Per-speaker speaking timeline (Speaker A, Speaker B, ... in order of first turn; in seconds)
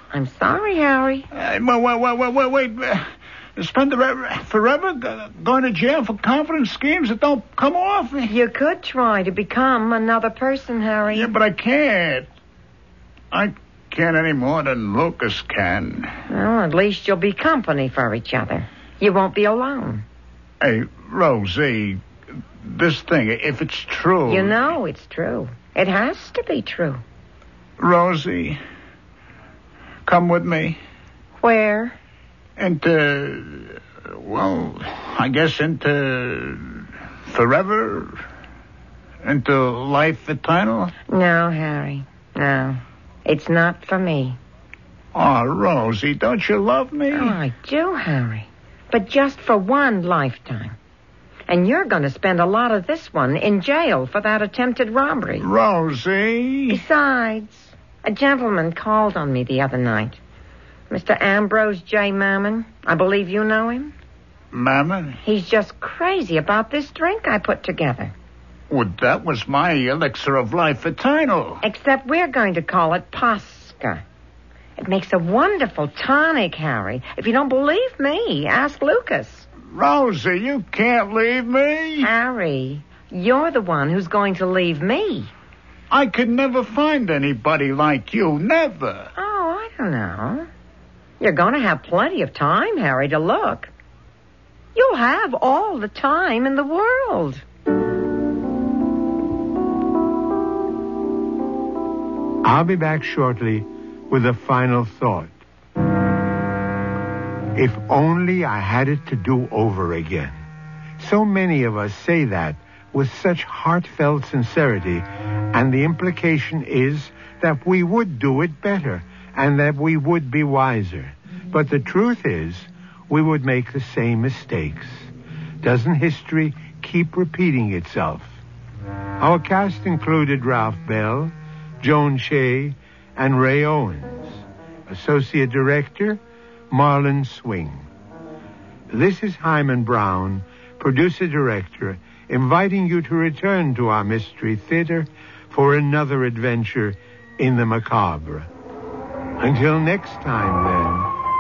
Speaker A: 0.1-1.3, 8.3-11.3, 16.3-20.1, 24.3-27.0, 31.4-32.0, 41.1-44.4, 47.1-50.8, 51.5-55.5, 56.7-60.2, 60.9-63.9, 65.2-68.1, 71.6-74.0, 74.8-79.5, 82.0-85.3, 89.2-90.5, 91.2-93.7, 94.8-97.4
Speaker B: 1.3-8.3, 11.1-12.3, 13.3-16.1, 20.6-22.0, 22.6-24.6, 27.8-28.6, 30.1-30.8, 32.6-38.2, 39.2-40.9, 45.1-47.4, 55.4-56.8, 64.5-65.2, 68.7-71.6, 79.7-82.1, 85.9-89.1
Speaker C: 102.4-105.3, 107.5-110.4, 111.0-125.1, 125.6-128.4, 129.2-137.9, 138.9-148.5, 149.4-151.1